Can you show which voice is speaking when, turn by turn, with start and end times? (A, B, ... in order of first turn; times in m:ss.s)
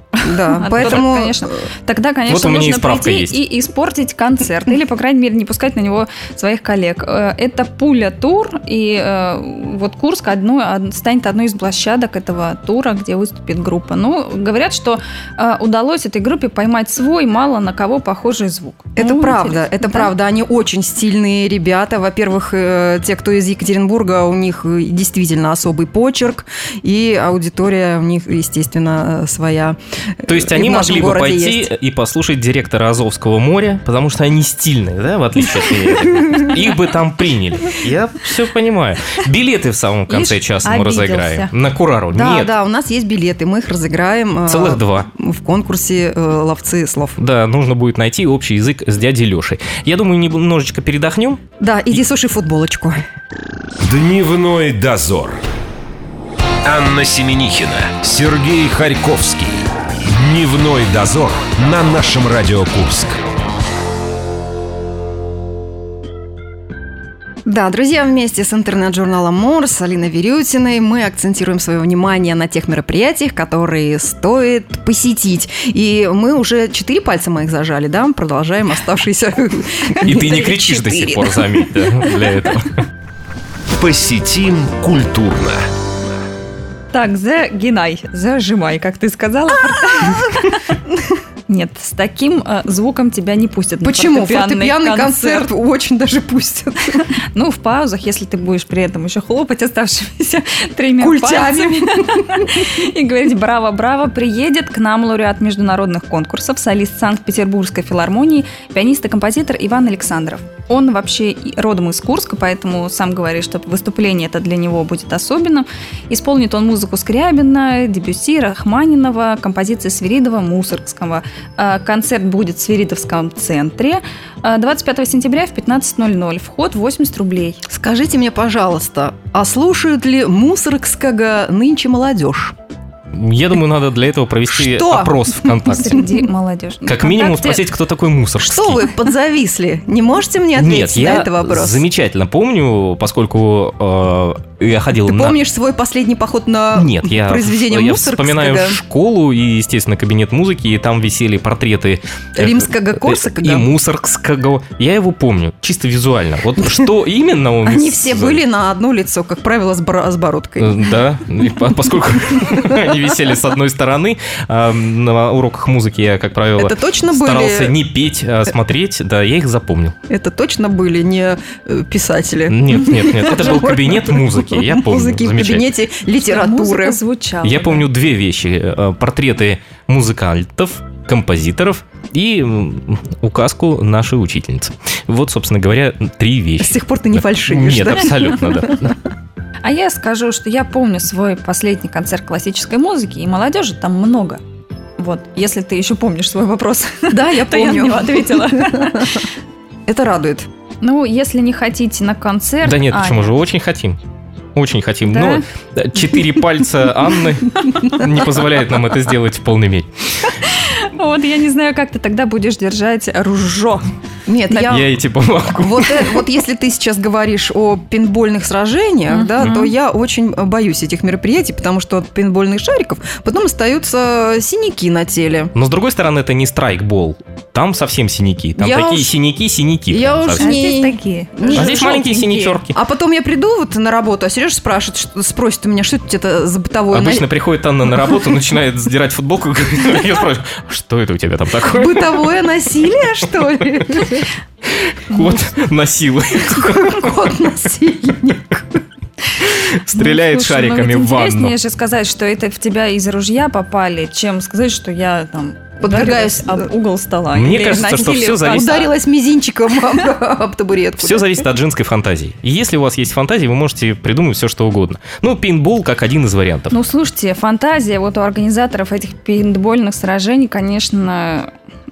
0:00.2-0:20.1 A
0:00.2-0:01.6 B
0:02.3-0:03.4 C
0:19.0-0:31.7 B
0:30.3-0:42.5 C
0:40.1-0:41.5 A
0:42.1-0:47.2 B
0:44.5-0:45.1 C
0:47.2-0:51.4 C
0:51.6-0:53.0 B
0:53.8-0:55.4 D
0:56.6-1:03.2 D
1:07.4-1:21.2 B
1:20.0-1:22.8 C
1:23.7-1:25.6 D
1:26.9-1:30.6 A
1:30.0-1:30.3 B
1:31.5-1:35.5 A
1:33.8-1:37.1 B
1:37.3-2:07.6 A
1:41.0-1:42.6 B
2:07.7-2:12.5 B
2:13.1-2:16.1 C
2:14.5-2:16.1 B
2:15.7-2:17.6 A
2:16.8-2:18.9 C
2:18.4-2:21.8 B
2:20.6-2:25.4 C
2:25.0-2:28.8 B
2:26.7-2:38.4 C
2:32.4-2:33.7 B
2:37.6-2:40.9 B
2:40.6-2:49.9 C
2:42.5-2:42.8 B
2:46.6-2:47.7 B
2:50.1-2:57.0 B
2:52.5-2:55.7 C
2:56.2-2:57.9 A
2:57.4-3:08.9 C
3:06.6-3:08.8 B
3:09.6-3:14.4 A
3:15.0-3:19.2 A
3:17.1-3:19.2 B
3:19.9-3:20.5 B
3:20.8-3:23.4 A
3:22.6-3:24.0 C
3:24.5-3:29.9 C
3:25.1-3:25.4 A
3:30.4-3:33.9 A
3:34.2-3:34.9 B
3:34.6-3:36.2 C
3:35.5-3:45.5 B
3:39.1-3:39.7 A
3:45.5-3:50.6 C
3:48.6-3:49.1 B
3:49.9-3:51.9 B
3:50.4-3:52.6 A
3:51.5-3:52.8 C
3:52.7-3:57.3 B
3:56.9-4:02.2 C
4:01.7-4:04.3 B
4:04.9-4:07.2 C
4:06.6-4:08.8 B
4:09.4-4:11.5 C
4:09.9-4:18.9 A
4:15.8-4:16.7 B
4:17.3-4:18.9 C
4:18.4-4:21.4 B
4:21.0-4:26.7 C
4:26.7-4:31.5 A